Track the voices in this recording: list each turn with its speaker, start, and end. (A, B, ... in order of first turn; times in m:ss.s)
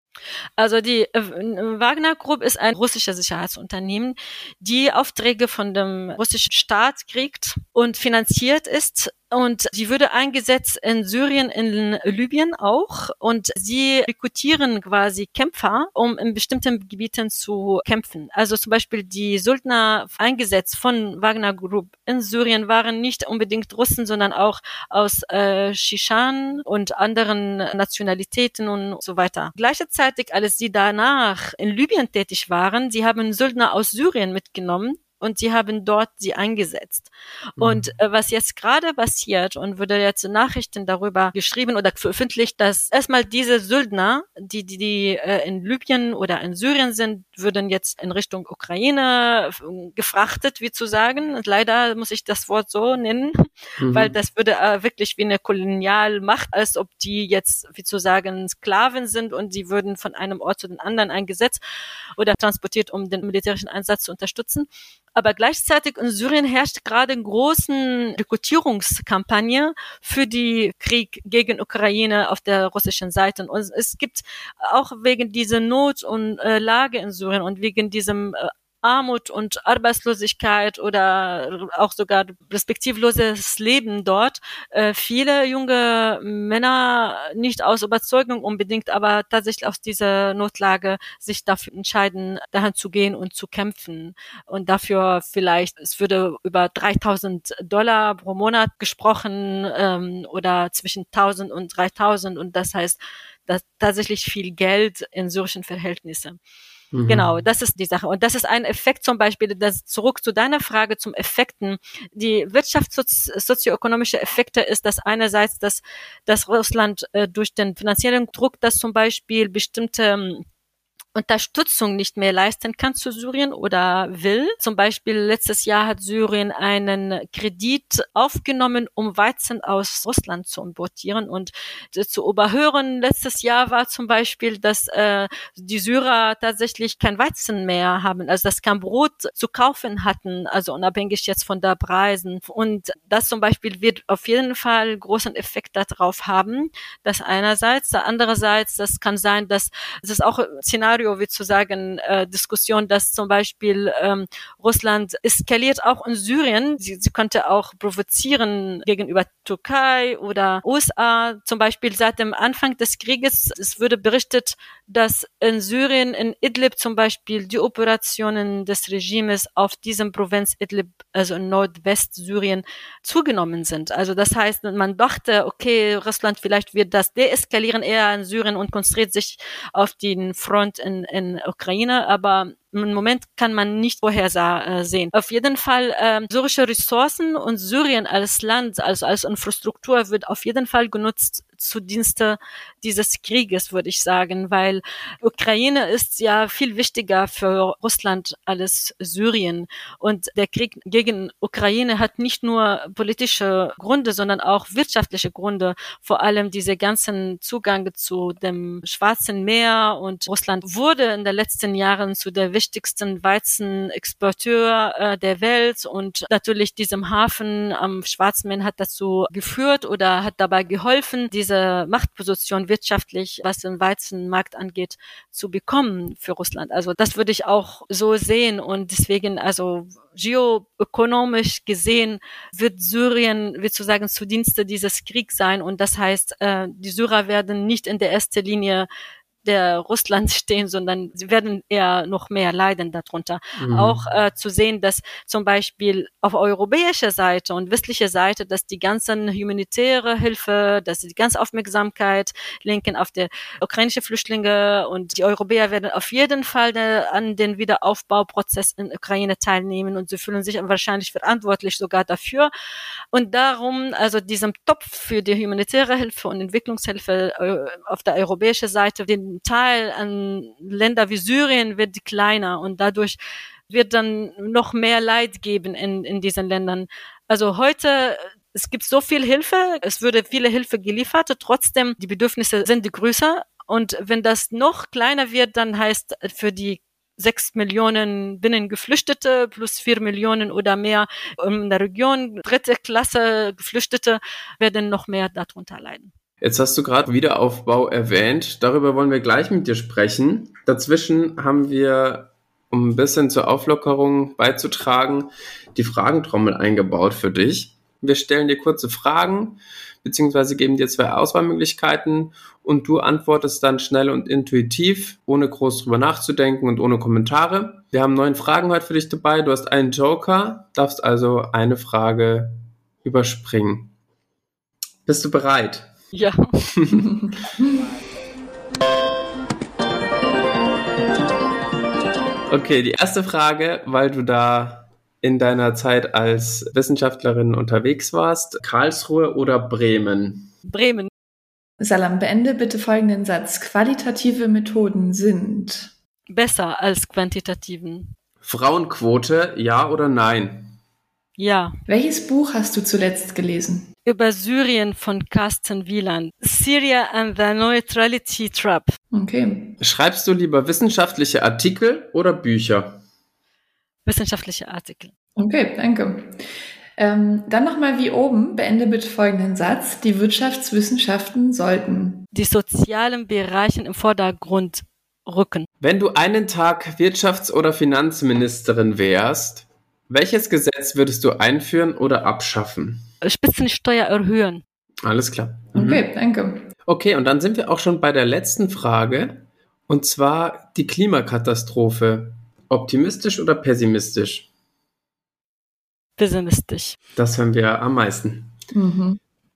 0:00.6-1:01.6 A
0:37.6-0:37.9 B
0:53.8-0:54.1 B
1:02.2-1:46.4 A
1:46.9-1:47.3 B
1:47.1-2:00.4 A
2:01.1-3:58.9 A
3:59.4-4:22.5 A
4:03.6-4:04.0 B
4:23.1-4:33.2 A
4:33.7-4:56.1 A
4:56.4-5:23.9 B
5:25.0-5:25.9 B
5:26.1-5:26.5 A
5:26.7-5:27.6 B
5:32.5-5:40.5 B
5:40.6-5:41.1 A
5:41.8-5:45.9 C
5:46.3-5:48.1 A
5:48.4-5:50.8 B
5:51.4-5:51.8 A
5:51.9-5:53.9 C
5:54.0-5:59.0 A
5:59.1-5:59.8 C
5:59.8-6:03.0 B
6:04.0-6:05.1 A
6:05.4-6:06.4 C
6:07.0-6:12.2 C
6:12.3-6:15.7 A
6:15.8-6:23.0 B
6:23.2-6:24.6 A
6:25.0-6:26.0 B
6:25.7-6:26.7 C
6:26.9-6:34.5 B
6:36.2-6:37.0 A
6:37.2-6:38.6 B
6:38.7-6:39.2 C